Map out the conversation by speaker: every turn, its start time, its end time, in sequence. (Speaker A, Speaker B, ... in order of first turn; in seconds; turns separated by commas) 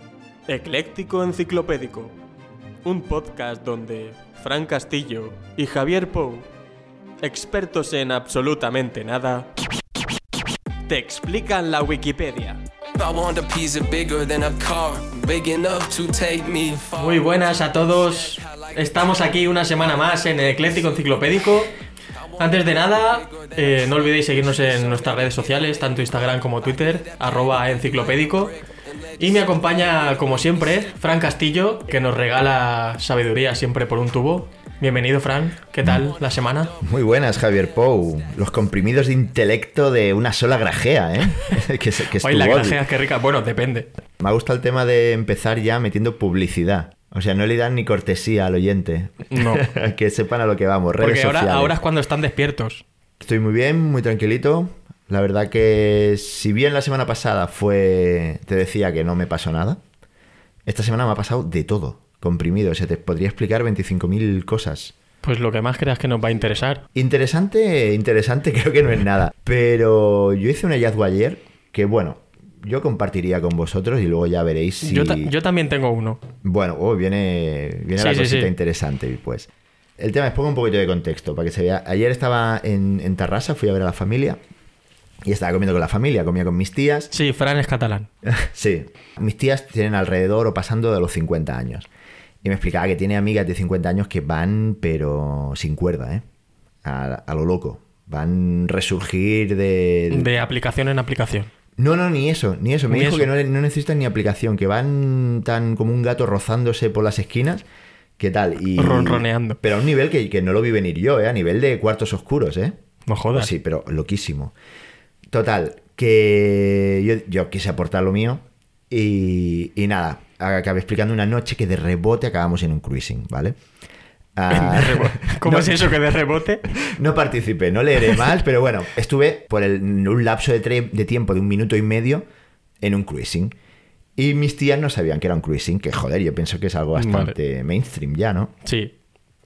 Speaker A: 0.5-2.1, Speaker A: 2.9-6.5, Speaker A: 7.2-9.5, Speaker A: 10.9-12.6, Speaker B: 13.0-21.1, Speaker A: 17.0-21.7, Speaker B: 22.1-30.9, Speaker A: 22.4-28.5, Speaker A: 29.2-36.7, Speaker B: 35.9-38.4, Speaker C: 36.8-42.8, Speaker A: 42.2-43.9, Speaker C: 44.2-51.8, Speaker A: 49.3-49.7, Speaker A: 51.0-52.8, Speaker C: 53.2-59.8, Speaker C: 60.7-65.0, Speaker A: 65.2-66.8, Speaker C: 66.9-75.3, Speaker A: 74.8-76.2, Speaker C: 76.4-84.4, Speaker A: 78.0-78.5, Speaker C: 85.2-87.1, Speaker A: 87.1-88.1, Speaker C: 88.2-91.9, Speaker C: 92.4-96.2, Speaker C: 96.8-100.3, Speaker A: 100.1-101.5, Speaker C: 101.8-107.7, Speaker A: 102.9-103.3, Speaker C: 108.2-112.8, Speaker A: 108.8-109.6, Speaker A: 113.1-113.5, Speaker C: 113.3-114.5, Speaker C: 115.3-123.6, Speaker C: 124.4-126.0, Speaker A: 124.5-126.7, Speaker C: 126.7-132.2, Speaker C: 132.8-133.6, Speaker C: 134.2-138.5, Speaker A: 137.0-137.3, Speaker A: 138.6-138.9